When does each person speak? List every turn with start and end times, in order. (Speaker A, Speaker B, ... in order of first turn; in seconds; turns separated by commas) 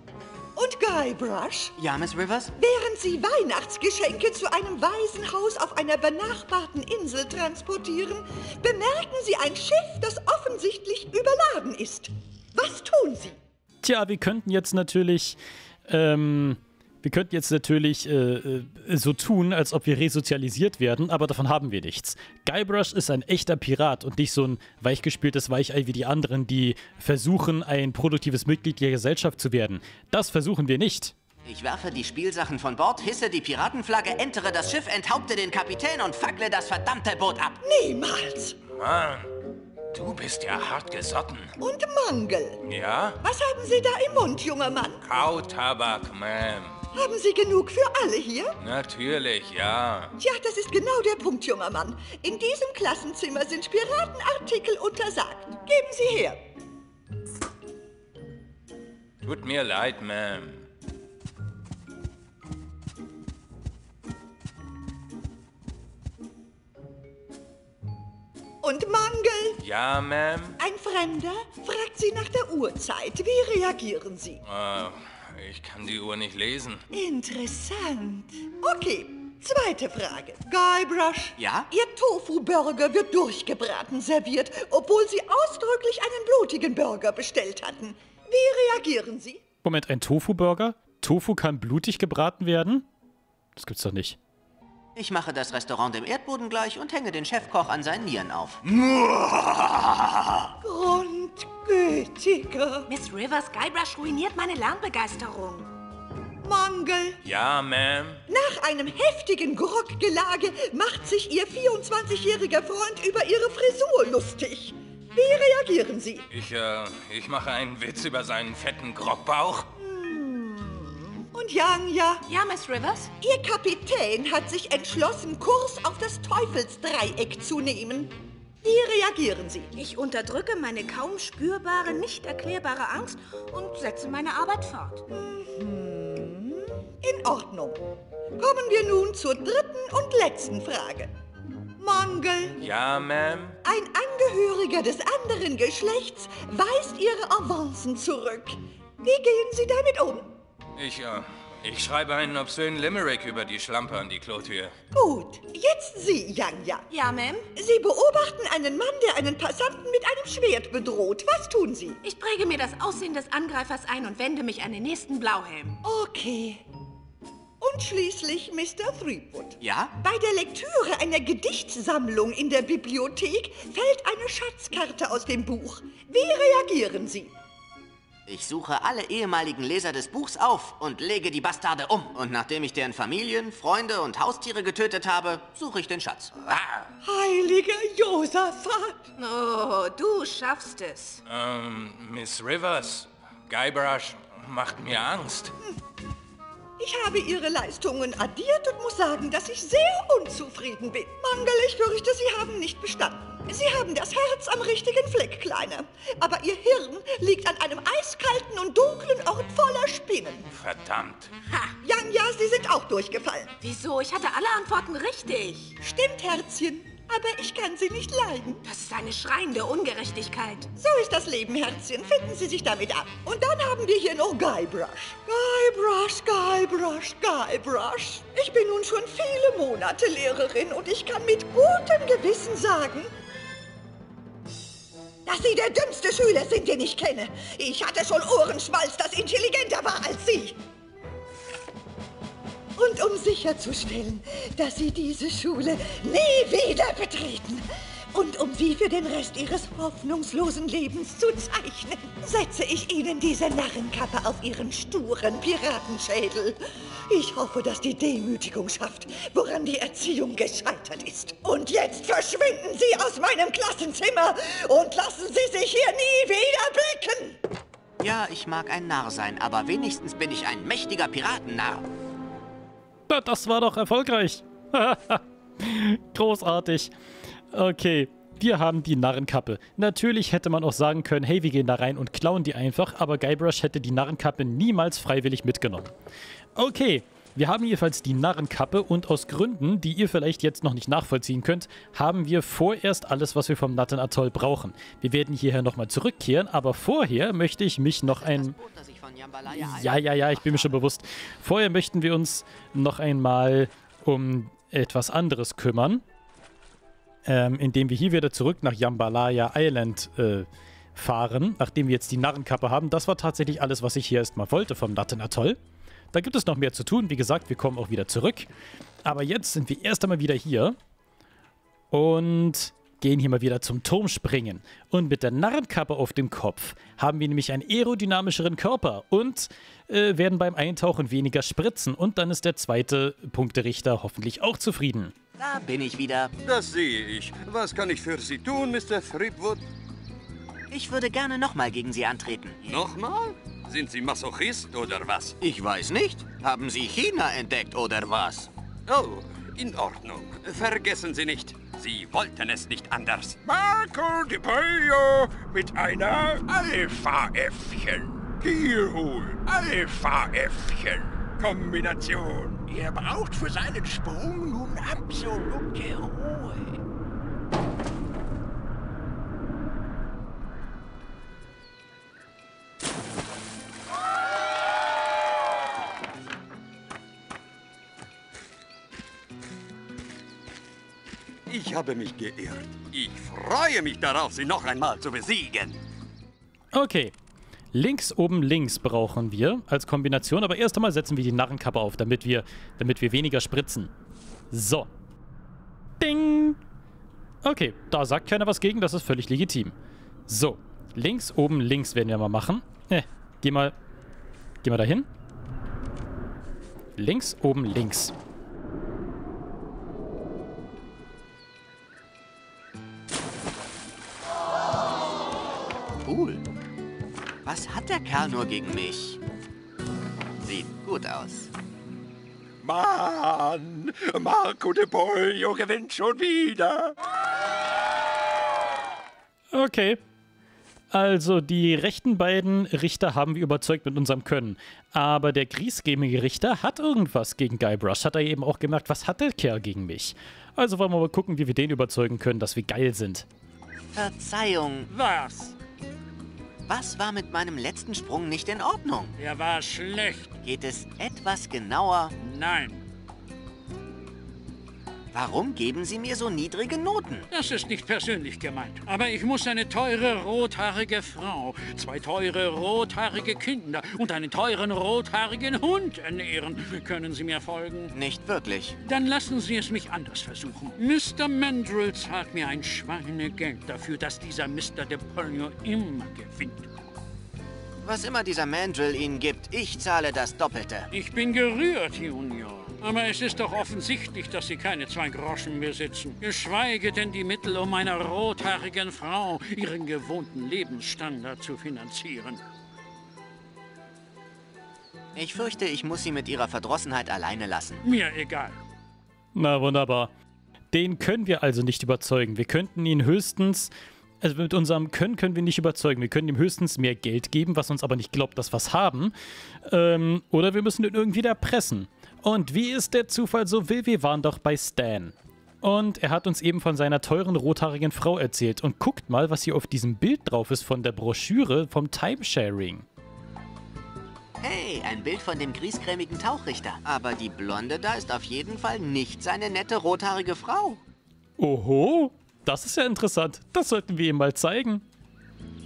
Speaker A: 0.6-1.8, Speaker B: 1.8-2.5, Speaker A: 2.6-13.4, Speaker C: 13.8-31.1, Speaker B: 31.4-37.6, Speaker A: 37.6-38.6, Speaker D: 38.8-39.3, Speaker D: 39.9-41.5, Speaker A: 41.6-42.6, Speaker D: 42.6-43.2, Speaker A: 43.2-45.0, Speaker D: 45.0-46.8, Speaker A: 46.9-48.6, Speaker D: 48.6-50.1, Speaker A: 50.2-56.4, Speaker D: 59.2-60.6, Speaker A: 68.6-69.6, Speaker D: 69.6-70.6, Speaker A: 70.6-74.4, Speaker D: 74.4-76.8, Speaker A: 76.9-89.4, Speaker B: 81.4-81.7, Speaker C: 89.6-92.9, Speaker C: 93.6-94.2, Speaker B: 95.0-98.6, Speaker D: 98.8-99.7, Speaker A: 100.6-102.9, Speaker E: 102.9-105.7, Speaker A: 106.4-107.2, Speaker D: 107.2-108.2, Speaker A: 108.3-116.2, Speaker D: 116.3-119.7, Speaker A: 119.8-122.2, Speaker E: 122.3-123.1, Speaker A: 123.2-129.7, Speaker E: 129.8-135.0, Speaker A: 135.1-137.8, Speaker A: 138.4-141.1, Speaker A: 141.8-142.6, Speaker D: 142.6-143.6, Speaker A: 143.6-150.3, Speaker D: 150.8-154.7, Speaker A: 154.9-156.9, Speaker E: 156.9-157.5, Speaker A: 157.6-162.0, Speaker E: 162.0-165.8, Speaker A: 165.8-166.6, Speaker A: 167.6-177.4, Speaker B: 169.6-169.9, Speaker B: 178.2-186.6, Speaker A: 187.0-189.1, Speaker E: 189.2-191.2, Speaker D: 191.2-195.6, Speaker A: 196.8-210.5, Speaker D: 210.5-211.3, Speaker A: 211.8-213.6, Speaker E: 213.6-215.8, Speaker A: 215.8-218.6, Speaker E: 218.6-220.7, Speaker A: 220.8-233.1, Speaker A: 235.2-240.6, Speaker A: 242.8-267.4, Speaker B: 268.0-271.9, Speaker C: 273.1-276.9, Speaker C: 277.5-285.9, Speaker C: 286.6-298.5, Speaker B: 298.1-300.8, Speaker C: 299.5-306.0, Speaker C: 307.2-315.6, Speaker C: 316.1-318.5, Speaker C: 319.0-320.8, Speaker C: 321.9-335.1, Speaker B: 335.4-336.3, Speaker F: 336.4-339.6, Speaker B: 340.7-342.6, Speaker F: 342.6-345.4, Speaker B: 345.4-348.5, Speaker F: 348.9-353.4, Speaker G: 353.4-366.8, Speaker F: 381.5-385.8, Speaker C: 386.7-387.1, Speaker C: 387.7-393.9, Speaker C: 394.5-394.9, Speaker C: 396.0-396.6, Speaker C: 397.4-399.8, Speaker C: 400.3-403.8, Speaker C: 404.6-405.1, Speaker C: 407.0-408.1, Speaker B: 416.0-416.4, Speaker B: 417.4-419.2, Speaker B: 420.4-421.5, Speaker G: 422.6-427.0, Speaker C: 429.5-430.0, Speaker C: 430.9-443.3, Speaker B: 443.9-444.9, Speaker H: 444.9-445.5, Speaker B: 446.6-449.1, Speaker H: 449.2-450.4, Speaker B: 450.4-452.1, Speaker H: 452.2-452.8, Speaker B: 455.1-457.3, Speaker H: 457.3-467.9, Speaker B: 467.9-468.8, Speaker H: 468.8-476.7, Speaker B: 477.8-480.9, Speaker H: 480.9-492.4, Speaker B: 495.1-497.8, Speaker H: 497.8-498.6, Speaker C: 499.4-500.1, Speaker C: 500.7-503.7, Speaker C: 504.2-509.1, Speaker C: 509.6-522.9, Speaker B: 524.4-530.8, Speaker C: 531.4-534.8